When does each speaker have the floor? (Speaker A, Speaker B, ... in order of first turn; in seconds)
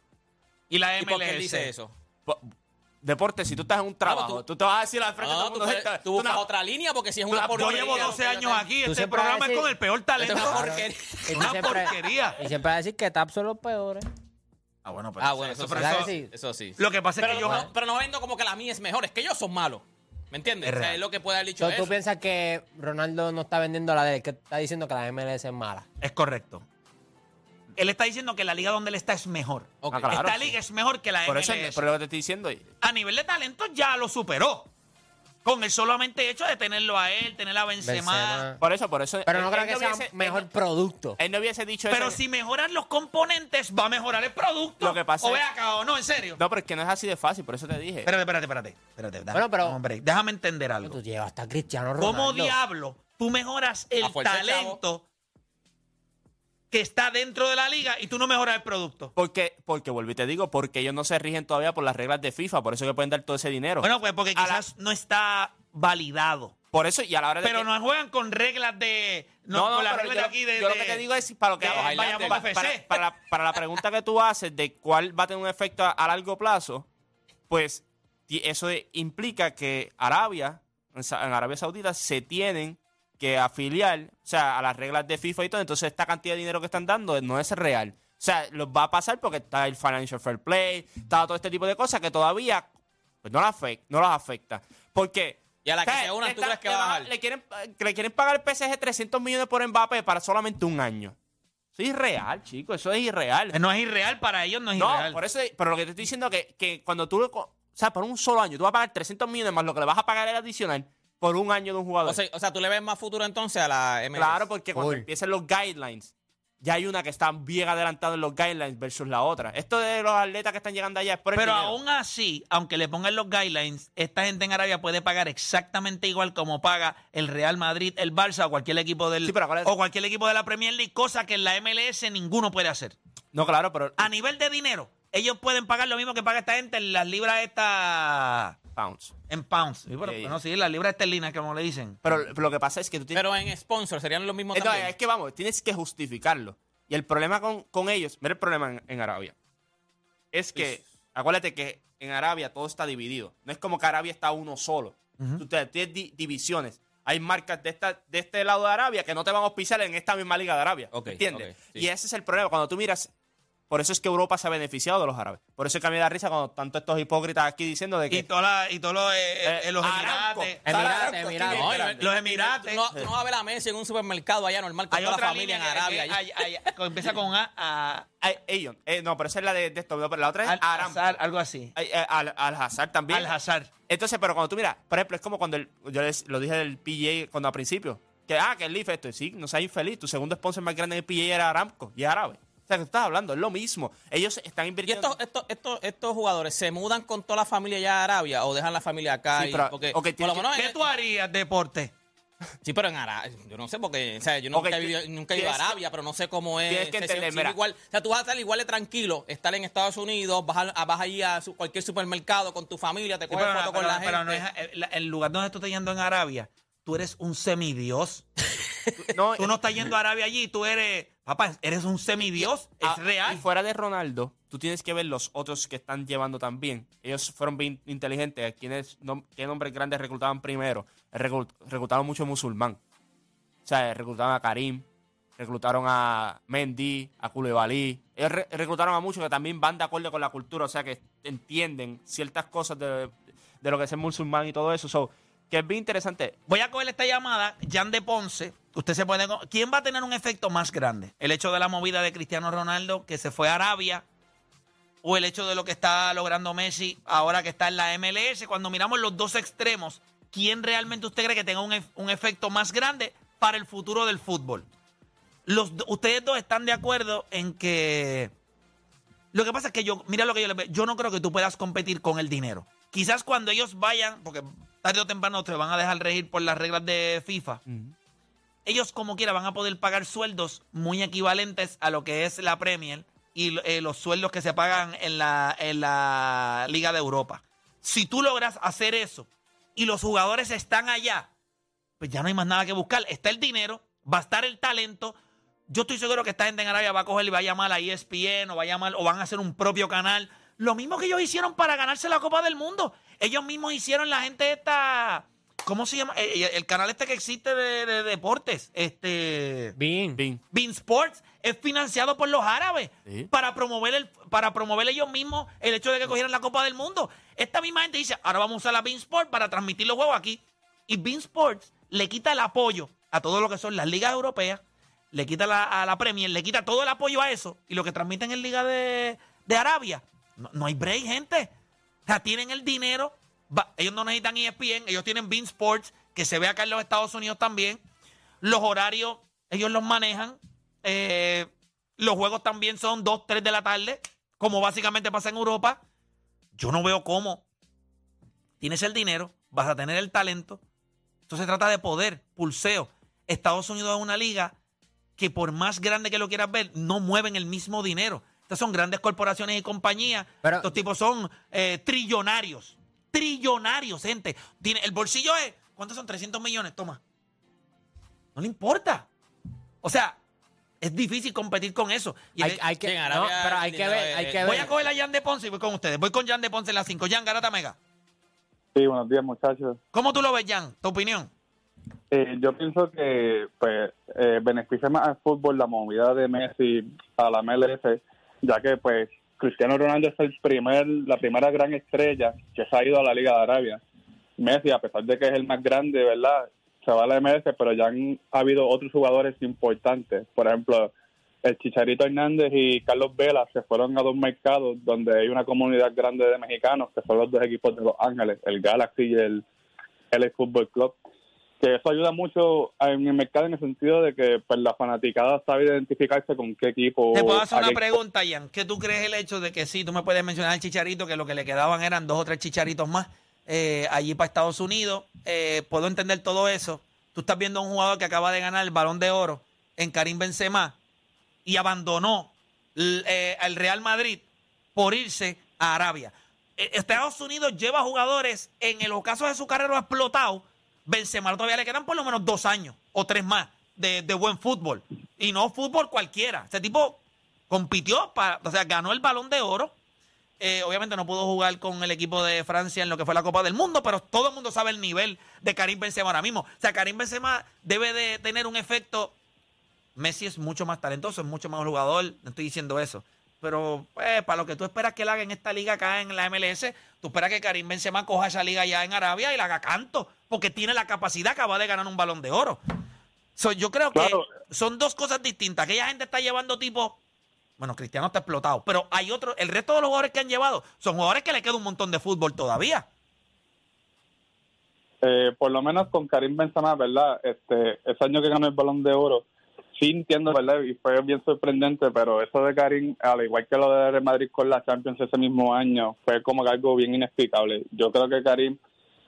Speaker A: 0.7-1.7, 7.3-12.4, 14.8-16.1, 16.8-17.7, 20.6-21.0, 26.0-26.6, 27.8-31.9, 32.8-34.7, 35.4-38.4, 41.9-46.4, 48.0-51.0, 52.0-55.0, 56.7-59.1, 63.8-66.5, 67.4-71.0, 71.6-72.9, 103.5-105.2, 121.3-132.9, 134.0-138.6, 139.3-142.0, 155.2-155.4, 168.1-172.8, 174.9-178.1, 180.4-181.7, 183.1-183.7, 200.5-201.9, 213.3-218.2, 219.4-223.4, 246.5-254.0, 255.0-264.6, 265.4-268.3, 269.3-277.6, 278.6-291.3, 292.0-295.1, 295.7-309.8, 310.5-331.5, 332.1-337.8, 338.4-345.8, 346.6-347.4, 348.6-350.6, 351.3-354.6, 355.2-367.0, 368.4-369.1, 369.8-370.2, 370.8-372.6, 374.4-377.8, 379.9-381.3, 417.1-430.8, 431.4-449.7, 450.4-459.1, 459.9-472.6, 473.4-477.0, 477.6-482.9
Speaker B: 1.0-1.9, 4.0-4.4, 5.2-8.7, 10.2-11.9, 15.2-21.9, 29.8-30.2, 54.0-54.8, 71.6-72.4, 95.6-97.1, 112.0-114.5, 143.1-144.9, 160.9-161.9, 171.5-176.5, 194.9-200.8, 202.6-214.4, 372.8-374.9
Speaker C: 3.0-6.4, 29.9-30.5, 31.2-32.7, 38.6-40.5, 41.2-42.2, 44.8-45.4, 46.4-48.1, 59.1-64.6, 66.7-67.7, 69.5-76.9, 77.5-92.7, 93.2-101.2, 101.8-103.6, 104.8-112.2, 114.1-121.8, 129.2-129.7, 133.3-134.1, 138.8-139.1, 140.0-140.4, 142.0-143.2, 144.5-149.3, 150.3-163.1, 163.7-168.3, 169.4-172.0, 178.2-181.2, 181.8-183.3, 183.9-195.2, 199.3-200.5, 204.5-205.8, 206.7-207.6, 219.0-219.6, 222.4-232.8, 233.6-234.9, 235.4-246.4, 277.7-277.9, 310.1-310.4
Speaker D: 8.8-9.7, 10.3-14.1, 15.8-16.3, 17.4-17.6, 21.6-25.9, 37.8-38.6, 39.2-41.2, 49.3-49.8, 50.8-52.5, 114.8-115.0, 170.6-171.8, 309.8-310.2, 360.4-360.7, 372.4-374.7
Speaker E: 378.7-379.8, 382.1-393.8, 394.4-400.9, 401.4-409.4, 410.1-411.0, 411.6-417.8, 473.9-474.2, 485.0-489.2, 489.8-498.6